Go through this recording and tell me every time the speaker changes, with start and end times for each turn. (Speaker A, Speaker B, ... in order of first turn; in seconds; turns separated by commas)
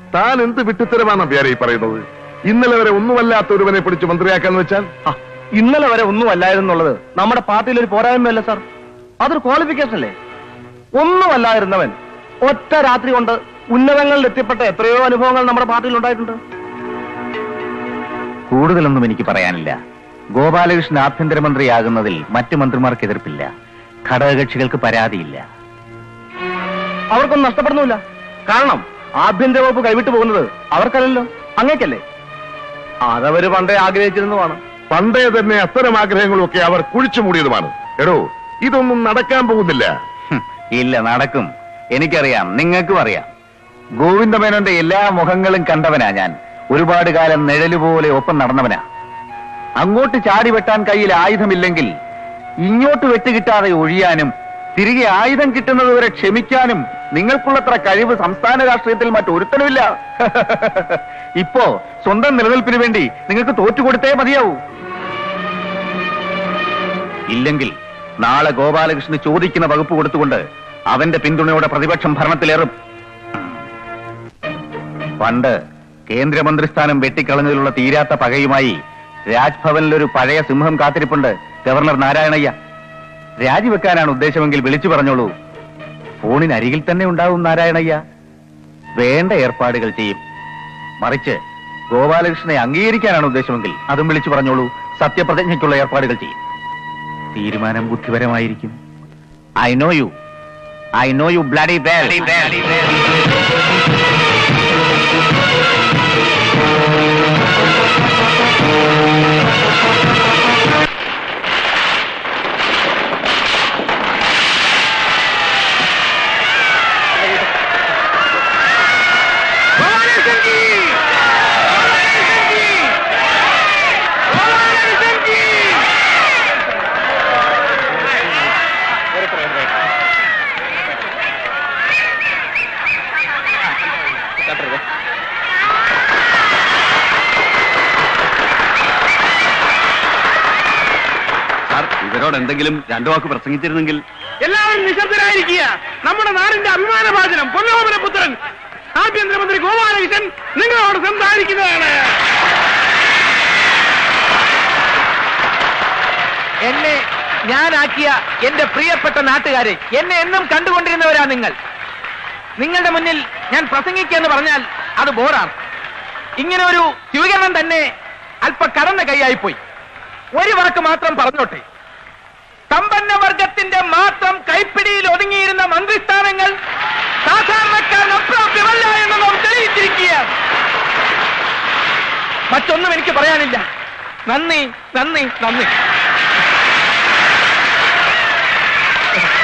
Speaker A: 0.1-4.9, Speaker B: 5.1-8.6, Speaker B: 9.2-10.1, Speaker B: 10.9-16.4, Speaker C: 18.5-19.8, Speaker C: 20.4-23.5, Speaker C: 24.1-25.4, Speaker B: 27.1-32.0, Speaker B: 33.0-34.6, Speaker A: 34.9-39.9, Speaker C: 40.3-43.3, Speaker C: 44.0-48.8, Speaker C: 49.8-51.9, Speaker C: 52.7-64.6, Speaker C: 67.3-72.7, Speaker C: 75.2-75.6, Speaker C: 76.1-78.8, Speaker C: 79.3-82.5, Speaker C: 83.4-85.3, Speaker C: 86.2-88.0, Speaker C: 89.0-90.2, Speaker C: 91.0-91.4, Speaker C: 91.9-96.4, Speaker C: 97.3-98.8, Speaker C: 99.6-100.1, Speaker C: 101.0-102.5, Speaker D: 141.7-144.0, Speaker E: 144.4-148.4, Speaker E: 149.0-152.0, Speaker F: 156.6-161.6, Speaker F: 162.6-165.5, Speaker F: 166.4-167.9, Speaker F: 168.4-169.6, Speaker F: 170.3-171.6, Speaker F: 172.7-176.5, Speaker F: 177.2-180.3, Speaker F: 182.5-183.6, Speaker F: 184.3-185.7